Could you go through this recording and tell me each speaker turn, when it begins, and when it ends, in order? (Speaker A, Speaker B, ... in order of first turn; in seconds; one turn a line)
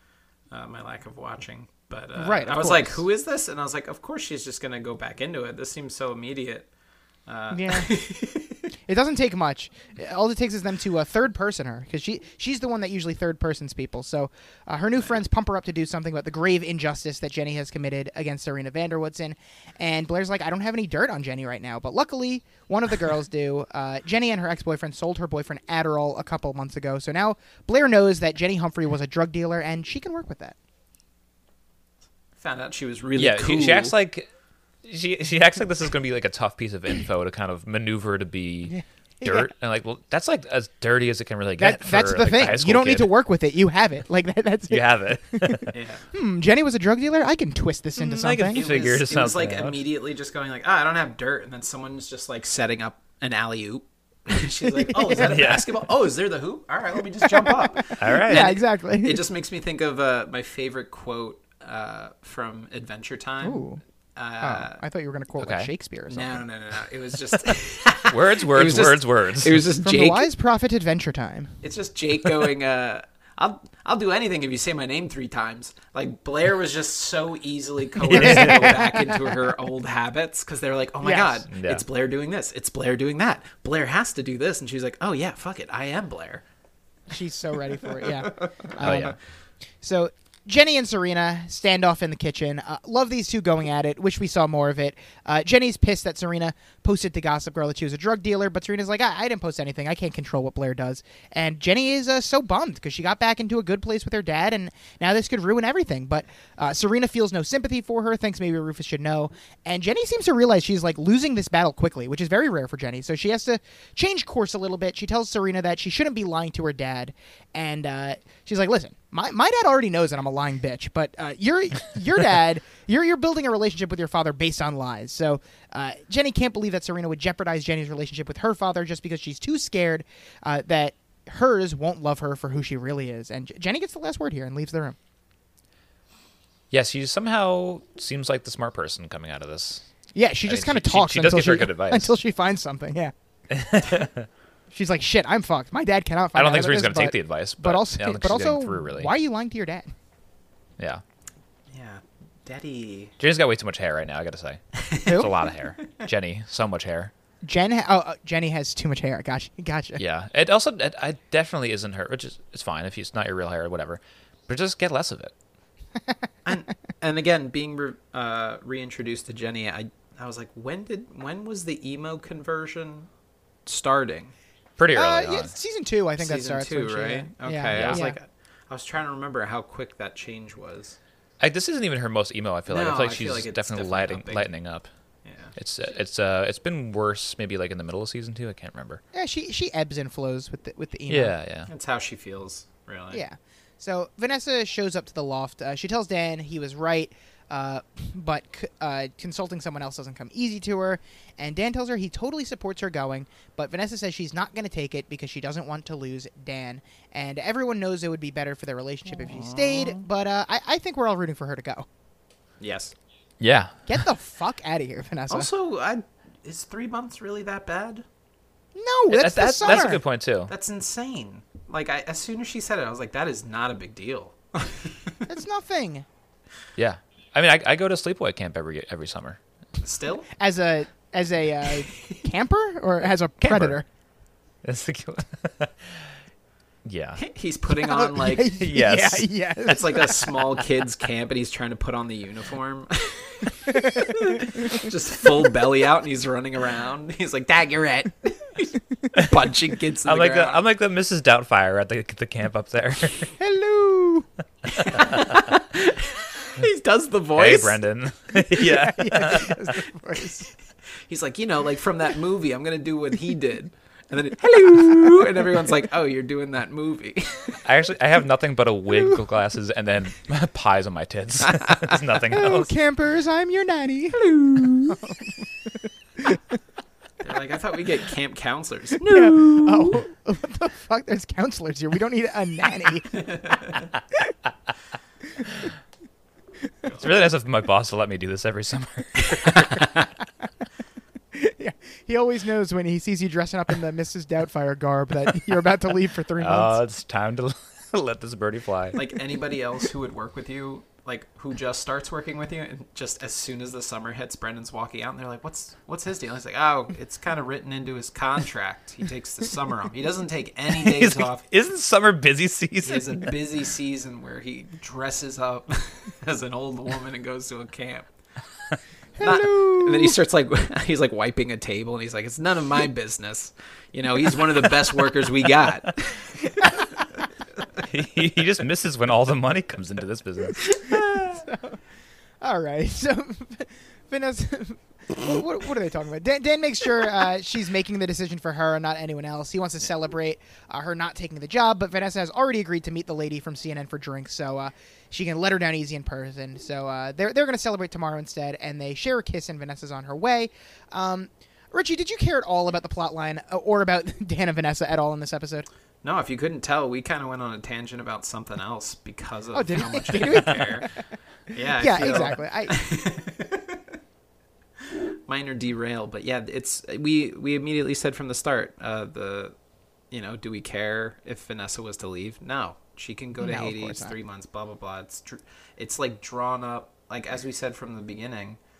Speaker A: 0.5-6.7
Speaker B: 2.2-3.0
Speaker A: 7.3-8.7
Speaker B: 7.5-7.9
Speaker B: 8.9-30.6
Speaker A: 32.4-33.9
Speaker C: 33.2-34.3
Speaker C: 34.8-43.1
Speaker B: 38.7-39.5
Speaker B: 41.6-48.6
Speaker C: 44.7-45.8
Speaker A: 45.7-46.1
Speaker C: 48.0-49.8
Speaker A: 48.5-63.6
Speaker B: 54.9-55.3
Speaker C: 55.2-55.8
Speaker B: 57.2-59.2
Speaker C: 58.0-58.5
Speaker B: 63.4-63.8
Speaker A: 64.2-64.8
Speaker B: 64.4-66.4
Speaker C: 65.4-65.7
Speaker A: 66.1-70.3
Speaker C: 67.5-69.7
Speaker B: 69.8-71.6
Speaker A: 71.6-86.4
Speaker C: 78.0-78.8
Speaker B: 78.1-79.2
Speaker B: 81.0-81.4
Speaker C: 81.5-81.8
Speaker B: 87.1-89.2
Speaker A: 88.0-89.1
Speaker C: 88.8-89.2
Speaker B: 89.8-134.9
Speaker C: 136.7-139.8
Speaker B: 140.1-143.1
Speaker C: 140.5-142.1
Speaker C: 143.5-144.3
Speaker B: 144.7-149.9
Speaker C: 146.3-149.1
Speaker A: 151.7-153.1
Speaker C: 153.2-157.1
Speaker A: 154.8-155.1
Speaker B: 155.0-155.3
Speaker B: 157.4-160.0
Speaker C: 160.0-165.3
Speaker A: 166.4-173.1
Speaker A: 173.7-174.3
Speaker C: 174.8-175.5
Speaker B: 174.9-178.2
Speaker A: 176.2-180.9
Speaker C: 177.7-178.0
Speaker C: 181.4-184.9
Speaker A: 182.7-184.5
Speaker A: 185.2-185.5
Speaker C: 185.6-189.0
Speaker B: 189.1-191.3
Speaker C: 191.1-191.7
Speaker A: 191.7-193.2
Speaker B: 193.1-211.9
Speaker A: 209.2-210.0
Speaker A: 212.6-212.9
Speaker C: 213.4-213.9
Speaker B: 213.9-215.5
Speaker A: 215.3-218.0
Speaker B: 218.8-220.0
Speaker C: 219.1-220.5
Speaker A: 219.6-219.9
Speaker A: 220.5-225.3
Speaker B: 225.3-226.1
Speaker C: 226.8-229.4
Speaker A: 229.8-230.3
Speaker B: 230.4-233.8
Speaker C: 233.4-233.8
Speaker C: 234.6-236.0
Speaker C: 236.8-237.2
Speaker A: 237.2-238.6
Speaker B: 237.7-240.3
Speaker C: 238.6-239.3
Speaker A: 239.7-250.6
Speaker B: 243.7-244.6
Speaker C: 250.1-253.3
Speaker B: 253.4-254.3
Speaker A: 254.7-257.8
Speaker C: 257.4-259.8
Speaker B: 258.4-260.5
Speaker A: 261.1-267.6
Speaker C: 267.6-272.7
Speaker B: 272.3-274.3
Speaker A: 274.2-274.9
Speaker B: 274.9-275.3
Speaker A: 277.2-280.0
Speaker B: 279.0-284.3
Speaker A: 283.1-283.8
Speaker C: 286.9-289.9
Speaker B: 291.3-296.8
Speaker C: 296.4-299.0
Speaker A: 298.9-311.4
Speaker C: 310.7-313.3
Speaker A: 312.8-318.1
Speaker B: 319.2-320.2
Speaker A: 319.2-326.8
Speaker C: 327.8-331.0
Speaker B: 331.1-331.8
Speaker B: 332.4-355.7
Speaker A: 356.0-360.9
Speaker B: 359.5-361.0
Speaker A: 361.5-363.8
Speaker B: 361.8-362.8
Speaker A: 365.3-369.5
Speaker A: 370.1-378.6
Speaker B: 373.4-374.1